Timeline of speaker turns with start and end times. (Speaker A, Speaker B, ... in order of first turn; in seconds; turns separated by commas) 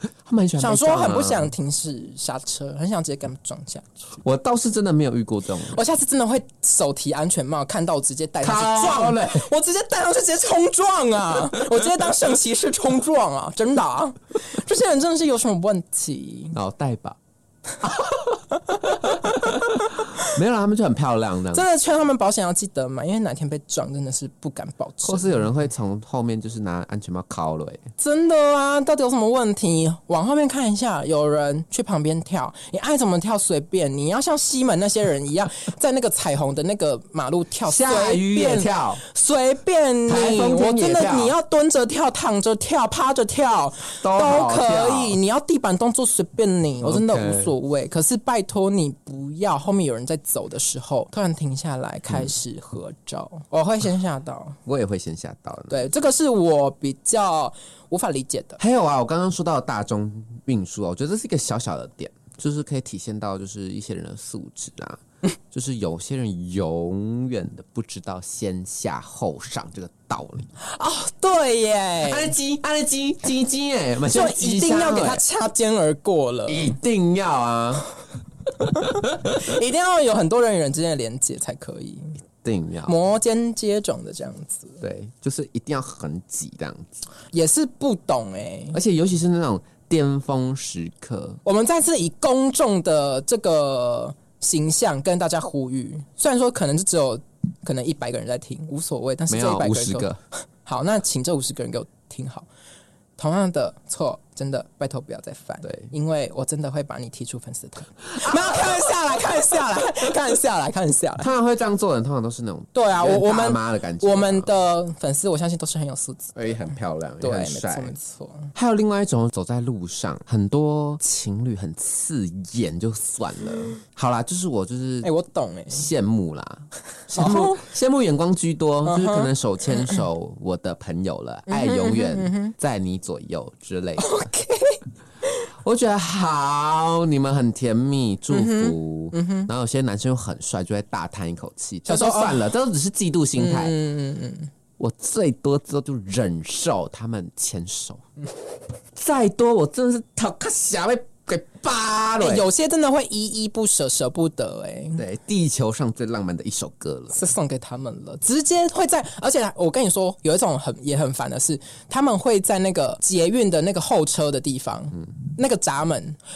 Speaker A: 0.2-1.5, Speaker B: 0.6-4.0, Speaker A: 4.2-5.8, Speaker B: 5.7-16.6, Speaker A: 8.4-9.5, Speaker A: 16.5-17.2, Speaker A: 17.8-18.2, Speaker B: 18.5-20.3, Speaker A: 19.0-21.6, Speaker B: 21.5-25.4, Speaker A: 25.0-27.8, Speaker B: 28.0-54.6, Speaker A: 37.6-39.0, Speaker A: 40.1-41.3, Speaker A: 44.0-45.2, Speaker A: 46.8-47.5, Speaker A: 54.7-55.8, Speaker B: 55.7-58.6, Speaker A: 58.6-70.5, Speaker B: 70.6-72.4, Speaker A: 72.0-75.2, Speaker B: 74.1-76.8, Speaker A: 76.5-77.8, Speaker B: 78.6-82.2, Speaker A: 79.0-79.4, Speaker A: 82.4-82.9, Speaker B: 82.9-84.8, Speaker A: 84.8-86.9, Speaker B: 87.3-88.8, Speaker A: 88.7-91.4, Speaker B: 91.5-100.1, Speaker A: 99.3-100.2, Speaker B: 100.7-102.5, Speaker B: 103.2-111.3, Speaker A: 108.2-108.8, Speaker A: 111.2-114.5, Speaker B: 112.7-116.4, Speaker A: 116.3-118.0, Speaker B: 117.2-118.5, Speaker A: 118.5-125.1, Speaker B: 125.0-125.9, Speaker A: 125.7-134.1, Speaker B: 127.1-127.7, Speaker B: 128.8-129.3, Speaker B: 131.5-132.5, Speaker B: 134.0-134.8, Speaker A: 135.6-143.8, Speaker B: 138.3-139.5, Speaker B: 141.9-142.5, Speaker B: 143.4-144.5, Speaker A: 144.8-148.0, Speaker A: 149.0-152.5, Speaker B: 152.2-155.0, Speaker A: 155.0-157.2, Speaker B: 157.1-166.2